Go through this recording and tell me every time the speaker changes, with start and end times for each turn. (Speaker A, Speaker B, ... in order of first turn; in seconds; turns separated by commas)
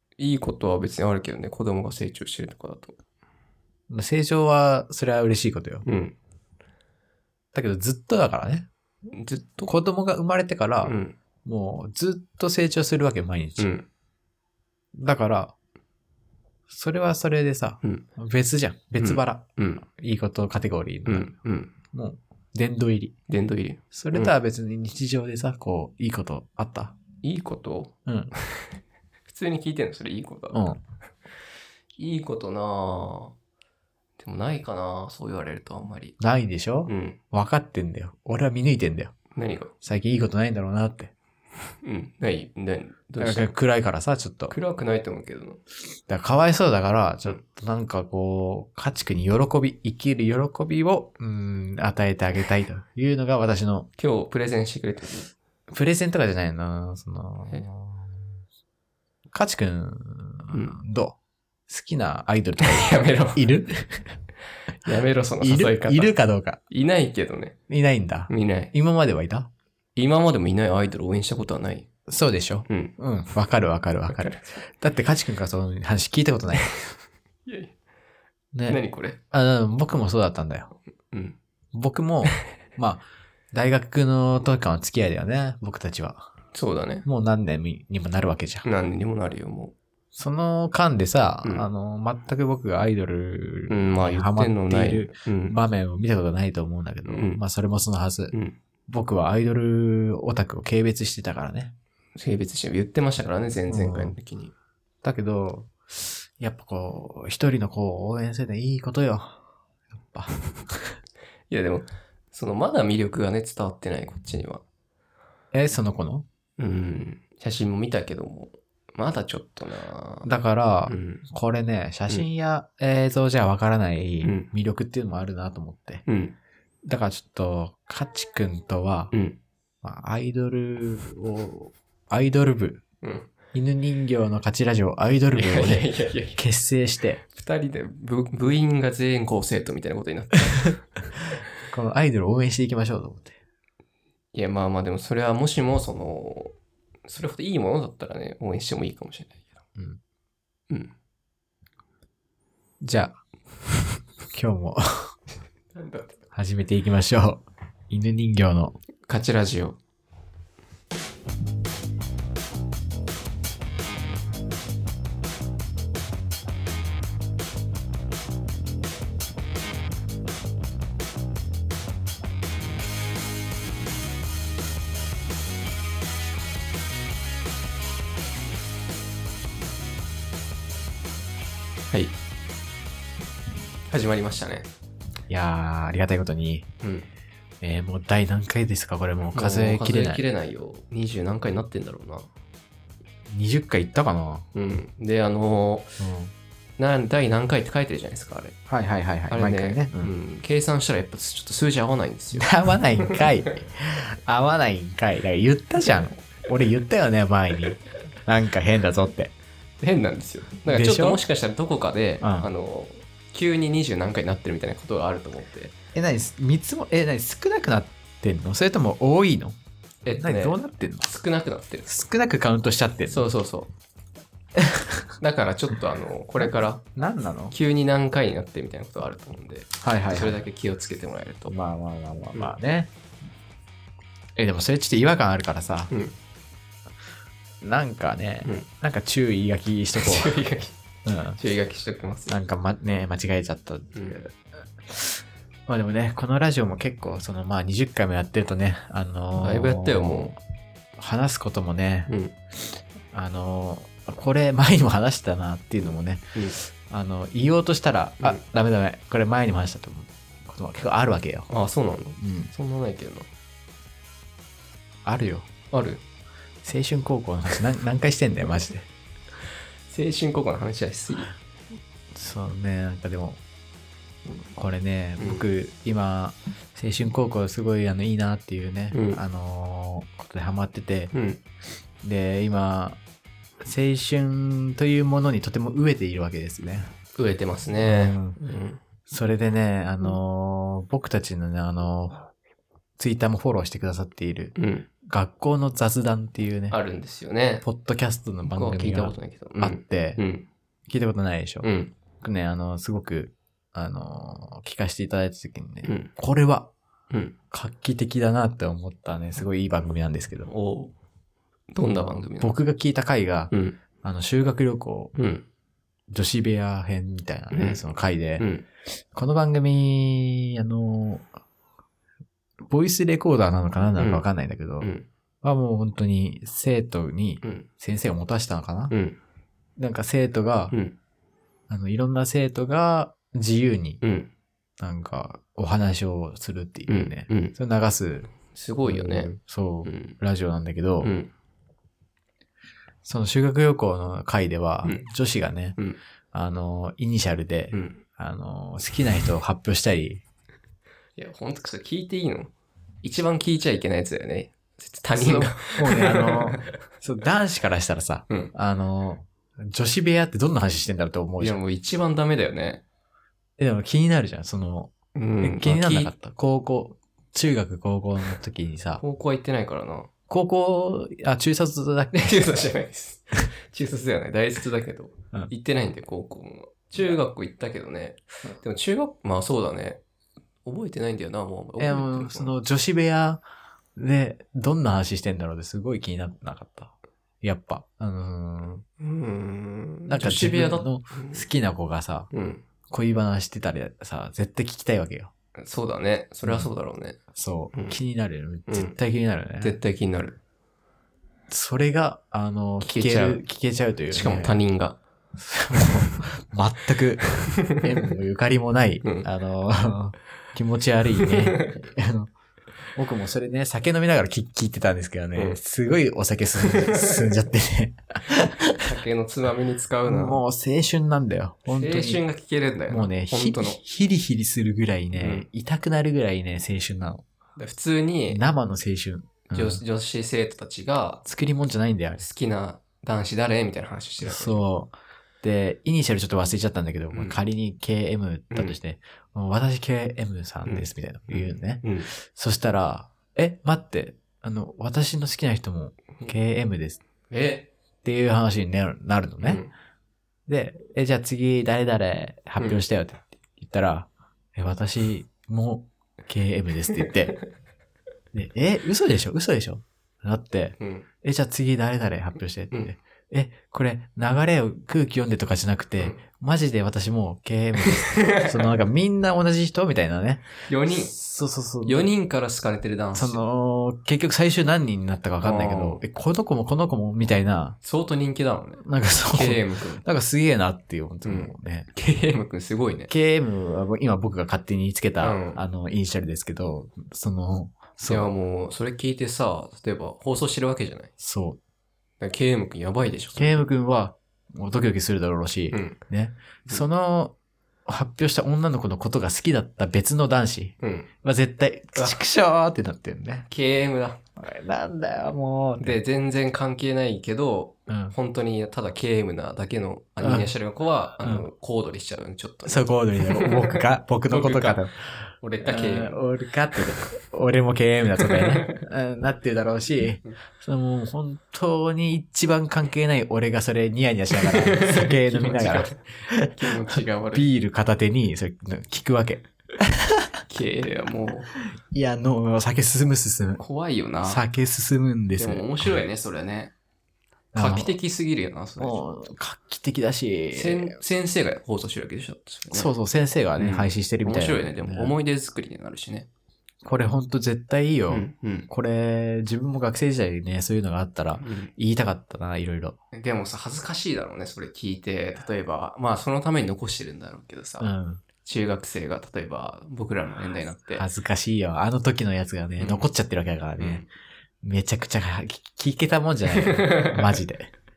Speaker A: 0.2-3.0, Speaker B: 3.9-5.8, Speaker A: 5.8-6.2, Speaker B: 7.5-8.7, Speaker A: 9.1-9.7, Speaker B: 9.7-13.7, Speaker A: 10.8-11.2, Speaker A: 13.6-13.9, Speaker B: 14.9-15.5, Speaker B: 16.7-21.3, Speaker A: 19.0-19.8, Speaker A: 21.1-21.7, Speaker B: 21.9-23.1, Speaker A: 23.3-24.3, Speaker B: 23.9-27.0, Speaker A: 27.2-28.8, Speaker B: 28.1-28.3, Speaker A: 29.3-30.7, Speaker B: 30.5-30.8, Speaker A: 32.0-33.3, Speaker A: 34.2-36.2, Speaker B: 36.2-39.1, Speaker A: 36.9-37.2, Speaker A: 39.3-39.7, Speaker B: 39.8-41.1, Speaker A: 41.8-43.5, Speaker B: 43.2-44.5, Speaker A: 44.5-45.6, Speaker B: 46.1-53.9, Speaker A: 54.0-55.3, Speaker B: 55.7-58.4, Speaker B: 59.3-61.2, Speaker A: 60.5-60.8, Speaker B: 61.7-64.1, Speaker A: 62.6-63.5, Speaker A: 64.8-66.2, Speaker B: 64.8-66.6, Speaker A: 66.7-67.6, Speaker B: 67.7-69.5, Speaker A: 68.3-68.7, Speaker A: 70.0-71.9, Speaker B: 72.1-76.7, Speaker A: 72.7-72.9, Speaker A: 74.1-74.4, Speaker A: 77.5-77.7, Speaker B: 78.5-78.8, Speaker A: 78.7-79.2, Speaker B: 79.3-80.7, Speaker A: 81.1-81.4, Speaker B: 81.7-86.3, Speaker A: 86.5-87.0, Speaker B: 87.0-88.7, Speaker A: 88.6-89.7, Speaker B: 90.1-98.3, Speaker A: 93.7-95.5, Speaker A: 97.0-97.4, Speaker A: 98.3-98.6, Speaker B: 98.9-101.7, Speaker A: 102.2-104.5, Speaker B: 103.7-104.1, Speaker B: 105.0-109.4, Speaker B: 109.9-110.9, Speaker A: 111.5-114.6, Speaker B: 115.5-116.2, Speaker A: 116.6-120.3, Speaker B: 120.2-126.0, Speaker A: 120.9-121.2, Speaker A: 124.2-124.5, Speaker A: 126.0-126.3, Speaker B: 126.8-129.1, Speaker A: 129.1-129.4, Speaker B: 129.8-132.8, Speaker A: 133.0-133.3, Speaker B: 133.5-137.2, Speaker A: 135.3-136.4, Speaker A: 137.3-140.8, Speaker B: 141.7-143.4, Speaker A: 144.3-146.5, Speaker A: 147.1-149.6, Speaker B: 152.8-153.2, Speaker B: 154.3-155.1, Speaker A: 155.7-156.2, Speaker B: 156.3-158.8, Speaker A: 159.1-159.8, Speaker A: 183.9-184.7, Speaker B: 185.3-186.7, Speaker A: 186.8-187.1, Speaker B: 187.6-190.2, Speaker A: 189.3-192.3, Speaker B: 193.3-194.4, Speaker A: 194.5-195.9, Speaker B: 196.0-196.3, Speaker A: 196.8-198.6, Speaker B: 198.7-200.1, Speaker A: 199.3-203.2, Speaker B: 202.3-209.3, Speaker A: 209.8-215.7, Speaker B: 210.7-211.2, Speaker B: 212.2-212.5, Speaker B: 215.9-219.6, Speaker A: 220.0-222.0, Speaker B: 220.2-221.1, Speaker B: 221.8-223.3, Speaker A: 223.1-223.7, Speaker B: 224.6-225.1, Speaker A: 225.2-226.8, Speaker B: 226.4-227.5, Speaker A: 227.5-231.5, Speaker B: 229.8-230.4, Speaker B: 231.5-232.9, Speaker B: 234.3-235.9, Speaker B: 237.6-240.4, Speaker A: 239.9-240.7, Speaker B: 241.0-241.4, Speaker A: 241.4-242.3, Speaker B: 242.3-244.3, Speaker A: 243.9-244.2, Speaker B: 244.9-250.4, Speaker A: 249.4-250.3, Speaker B: 251.0-252.1, Speaker A: 252.1-252.3, Speaker B: 253.1-261.5, Speaker A: 261.5-263.3, Speaker B: 262.2-262.5, Speaker B: 265.0-265.5, Speaker A: 265.7-266.0, Speaker B: 266.6-268.9, Speaker A: 269.9-271.3, Speaker B: 272.1-273.4, Speaker B: 274.5-281.1, Speaker A: 275.2-275.4, Speaker A: 278.9-279.2, Speaker A: 281.1-281.4, Speaker B: 282.0-283.0, Speaker B: 283.6-286.9, Speaker A: 287.1-288.8, Speaker B: 287.8-288.4, Speaker B: 289.1-292.3, Speaker B: 293.0-296.8, Speaker A: 294.6-294.9, Speaker A: 296.7-297.6, Speaker B: 297.6-300.2, Speaker A: 298.4-300.5, Speaker B: 300.9-301.7, Speaker A: 301.6-301.9, Speaker B: 302.2-306.7, Speaker A: 305.8-306.1, Speaker A: 307.1-307.4, Speaker B: 307.5-310.5, Speaker A: 310.5-310.9, Speaker A: 311.7-312.6, Speaker B: 312.4-313.5, Speaker A: 313.5-313.8, Speaker B: 314.0-315.1, Speaker A: 315.1-315.4, Speaker B: 316.1-318.5, Speaker A: 317.5-317.8, Speaker A: 318.4-318.6, Speaker B: 319.1-321.3, Speaker B: 322.7-324.9, Speaker A: 324.0-324.2, Speaker A: 324.8-325.1, Speaker B: 325.4-328.9, Speaker A: 328.9-329.2, Speaker B: 329.8-330.7, Speaker A: 330.7-331.0, Speaker B: 331.7-334.0, Speaker A: 334.0-334.3, Speaker B: 334.8-338.3, Speaker A: 336.9-337.6, Speaker A: 338.4-340.2, Speaker B: 338.8-341.1, Speaker A: 341.0-341.3, Speaker B: 343.0-345.8, Speaker B: 346.3-350.2, Speaker A: 347.7-348.0, Speaker A: 351.1-356.7, Speaker B: 355.1-361.6, Speaker A: 361.4-362.8, Speaker B: 363.6-369.0, Speaker A: 365.1-366.1, Speaker A: 369.0-370.1, Speaker B: 370.3-372.4, Speaker A: 372.1-380.0, Speaker A: 380.6-382.6, Speaker B: 381.8-383.4, Speaker B: 383.9-388.8, Speaker A: 389.0-391.4, Speaker B: 390.1-392.3, Speaker A: 392.3-392.6, Speaker B: 392.9-395.3, Speaker A: 395.6-397.2, Speaker B: 396.4-396.7, Speaker B: 397.3-399.8, Speaker A: 397.7-398.0, Speaker A: 398.7-399.0, Speaker A: 399.6-400.4, Speaker B: 401.5-404.6, Speaker A: 402.8-403.4, Speaker A: 404.1-405.0, Speaker B: 405.4-412.3, Speaker A: 405.7-406.1, Speaker A: 407.4-408.1, Speaker A: 411.2-411.8, Speaker B: 412.9-418.8, Speaker A: 416.6-417.3, Speaker A: 418.8-420.4, Speaker B: 420.1-422.2, Speaker A: 421.7-423.8, Speaker B: 422.9-427.2, Speaker A: 425.1-425.4, Speaker A: 427.6-428.4, Speaker B: 428.3-429.8, Speaker A: 429.5-431.2, Speaker B: 431.2-432.2, Speaker A: 432.2-434.6, Speaker B: 434.2-447.0, Speaker A: 437.1-437.4, Speaker A: 438.5-438.8, Speaker A: 440.6-442.1, Speaker A: 447.3-447.7, Speaker B: 448.0-449.6, Speaker A: 449.4-449.7, Speaker B: 450.5-457.4, Speaker B: 458.3-472.1, Speaker A: 460.8-461.1, Speaker A: 467.8-468.8, Speaker A: 470.7-471.1, Speaker A: 471.8-473.4, Speaker B: 473.1-477.8, Speaker A: 475.4-476.0, Speaker A: 477.8-480.0, Speaker B: 478.8-481.9, Speaker A: 481.2-483.1, Speaker B: 483.1-488.3, Speaker A: 485.2-485.6, Speaker A: 488.1-491.1, Speaker B: 491.2-491.6, Speaker A: 492.2-493.7, Speaker B: 493.3-497.3, Speaker A: 495.7-496.0, Speaker B: 497.9-503.5, Speaker A: 500.8-501.1, Speaker A: 503.5-504.2, Speaker B: 504.4-506.0, Speaker A: 505.8-514.8, Speaker B: 507.9-508.1, Speaker B: 510.2-510.5, Speaker B: 512.6-515.1, Speaker A: 515.4-516.2, Speaker B: 515.6-530.4, Speaker A: 516.7-517.0, Speaker A: 518.2-518.9, Speaker A: 524.4-527.5, Speaker A: 530.5-531.5, Speaker B: 531.9-533.6, Speaker A: 533.6-534.4, Speaker B: 534.2-536.0, Speaker A: 535.4-536.7, Speaker B: 537.5-538.0, Speaker A: 537.5-539.0, Speaker B: 538.8-541.0, Speaker A: 540.5-542.9, Speaker B: 542.7-545.1, Speaker A: 543.6-546.3, Speaker B: 546.8-553.0, Speaker A: 548.1-548.7, Speaker A: 551.4-551.7, Speaker A: 553.1-557.9, Speaker B: 557.8-558.2, Speaker A: 558.4-561.1, Speaker B: 560.9-564.1, Speaker A: 562.8-563.1, Speaker A: 563.8-564.0, Speaker B: 564.6-567.7, Speaker A: 566.5-567.4